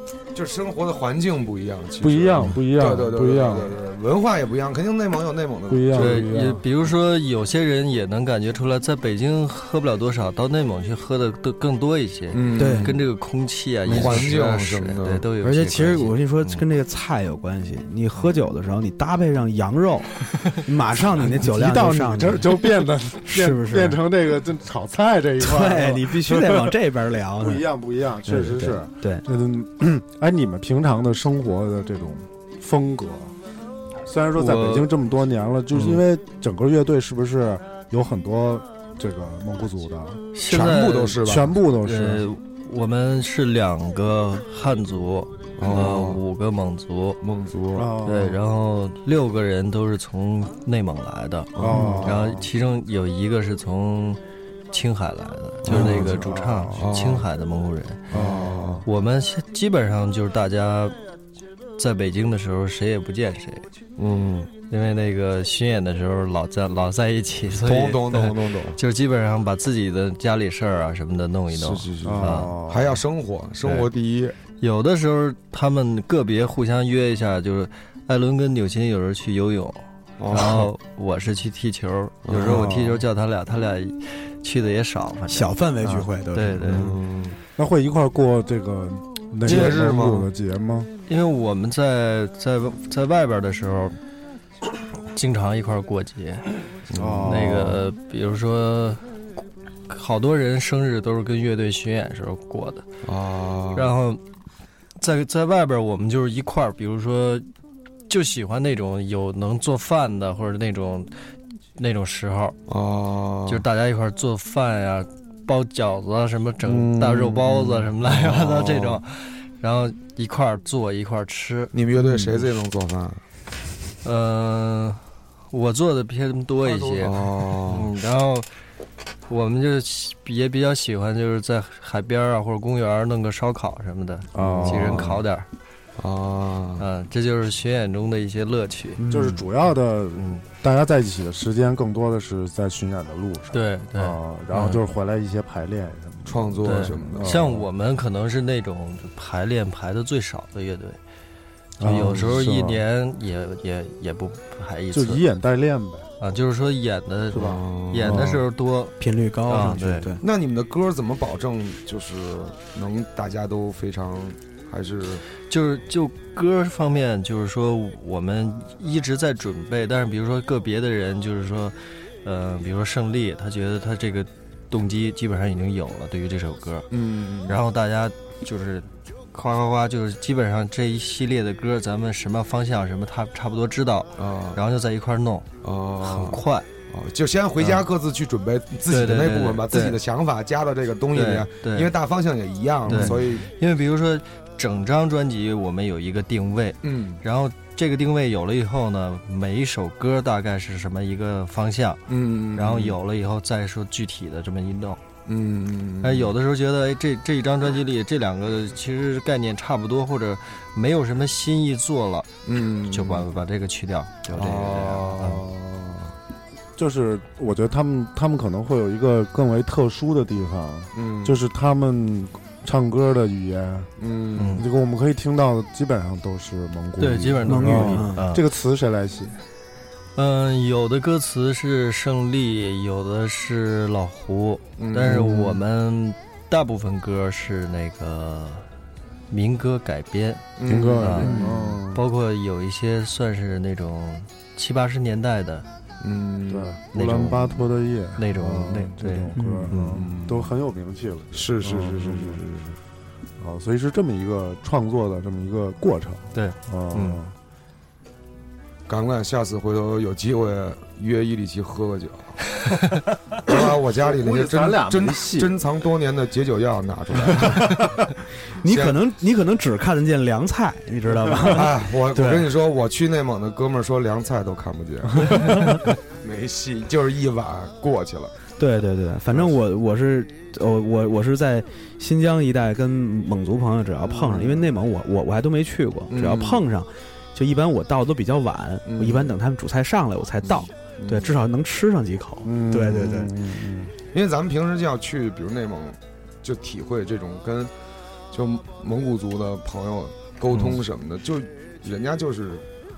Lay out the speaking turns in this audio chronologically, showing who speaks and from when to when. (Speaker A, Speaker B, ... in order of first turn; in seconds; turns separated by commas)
Speaker A: 0.3-6.3, Speaker B: 2.0-3.8, Speaker B: 5.7-6.6, Speaker C: 5.9-16.6, Speaker A: 12.3-13.0, Speaker D: 12.6-13.0, Speaker A: 13.8-15.2, Speaker D: 14.0-14.2, Speaker D: 15.4-24.0, Speaker B: 21.4-26.8, Speaker D: 25.4-27.6, Speaker B: 27.4-33.3, Speaker D: 28.2-29.2, Speaker B: 34.0-40.2, Speaker C: 34.4-34.9, Speaker C: 40.3-47.2, Speaker A: 40.5-41.5, Speaker B: 41.2-42.2, Speaker A: 45.6-46.2, Speaker A: 47.2-47.9, Speaker B: 47.7-48.4, Speaker C: 48.0-58.1, Speaker A: 51.5-52.4, Speaker B: 51.6-52.4, Speaker A: 55.6-57.2, Speaker B: 55.6-57.0, Speaker A: 58.1-58.8, Speaker B: 58.1-58.8, Speaker C: 58.8-61.0, Speaker C: 61.8-63.6, Speaker A: 64.0-64.5, Speaker C: 64.6-72.5, Speaker A: 67.6-68.8, Speaker A: 71.5-74.3, Speaker B: 72.0-73.0, Speaker C: 73.6-73.9, Speaker C: 74.6-85.5, Speaker A: 80.2-80.7, Speaker A: 82.2-82.7, Speaker B: 82.3-83.0, Speaker D: 85.3-86.7, Speaker B: 85.8-86.1, Speaker C: 86.3-86.9, Speaker A: 86.7-87.4, Speaker B: 87.5-90.9, Speaker A: 89.4-90.3, Speaker C: 89.5-89.8, Speaker C: 91.1-94.0, Speaker C: 95.1-96.5, Speaker A: 96.9-97.6, Speaker B: 96.9-97.8, Speaker C: 97.2-99.0, Speaker C: 99.9-102.8, Speaker A: 103.0-103.9, Speaker C: 103.7-104.2, Speaker C: 105.0-107.5, Speaker C: 108.1-111.1, Speaker C: 111.8-112.6, Speaker A: 112.7-113.6, Speaker C: 113.5-121.7, Speaker B: 116.6-117.8, Speaker A: 117.9-119.0, Speaker A: 121.7-123.2, Speaker C: 124.0-128.5, Speaker A: 126.7-127.9, Speaker C: 129.3-135.5, Speaker B: 134.3-135.2, Speaker A: 134.4-135.2, Speaker A: 136.0-136.8, Speaker C: 136.8-139.0, Speaker D: 139.0-139.4, Speaker B: 139.1-147.6, Speaker C: 140.1-140.4, Speaker C: 143.5-144.8, Speaker A: 146.2-147.4, Speaker C: 146.6-151.0, Speaker B: 151.8-152.8, Speaker C: 151.8-155.2, Speaker B: 154.9-156.1, Speaker C: 156.2-158.9, Speaker A: 157.3-158.3, Speaker B: 157.3-158.4, Speaker D: 159.0-160.2, Speaker C: 159.4-160.1, Speaker A: 160.2-165.2, Speaker C: 165.5-176.9, Speaker A: 176.9-177.6, Speaker C: 177.5-185.5, Speaker A: 184.2-184.6, Speaker A: 185.6-193.5, Speaker C: 186.0-186.7, Speaker C: 187.6-187.8, Speaker C: 188.9-190.0, Speaker C: 191.1-191.9, Speaker C: 192.8-205.0, Speaker D: 192.9-193.2, Speaker A: 196.8-197.2, Speaker A: 202.1-203.0, Speaker A: 205.2-206.3, Speaker C: 206.0-215.4, Speaker A: 212.4-213.3, Speaker A: 214.3-216.1, Speaker B: 216.8-223.9, Speaker A: 220.9-221.4, Speaker A: 224.0-224.6, Speaker C: 224.3-224.7, Speaker B: 224.5-229.4, Speaker C: 227.0-228.4, Speaker D: 227.4-228.2, Speaker C: 230.2-238.7, Speaker A: 234.8-235.6, Speaker C: 239.3-241.4, Speaker A: 240.6-241.7, Speaker B: 240.7-242.0, Speaker C: 241.9-245.7, Speaker A: 246.0-246.8, Speaker B: 246.5-252.4, Speaker C: 246.9-250.0, Speaker D: 249.3-249.7, Speaker A: 249.9-250.5, Speaker A: 251.3-252.8, Speaker B: 253.4-257.3, Speaker C: 256.3-257.2, Speaker A: 258.9-262.4, Speaker A: 263.4-267.9, Speaker B: 263.5-265.6, Speaker B: 267.2-267.8, Speaker D: 268.6-272.5, Speaker A: 268.6-269.0, Speaker A: 271.5-278.3, Speaker D: 275.3-275.8, Speaker D: 278.6-293.3, Speaker A: 279.3-279.5, Speaker A: 284.0-284.7, Speaker A: 286.1-286.6, Speaker A: 288.8-289.3, Speaker A: 290.4-291.3, Speaker B: 292.4-293.9, Speaker A: 294.1-297.7, Speaker A: 298.3-302.6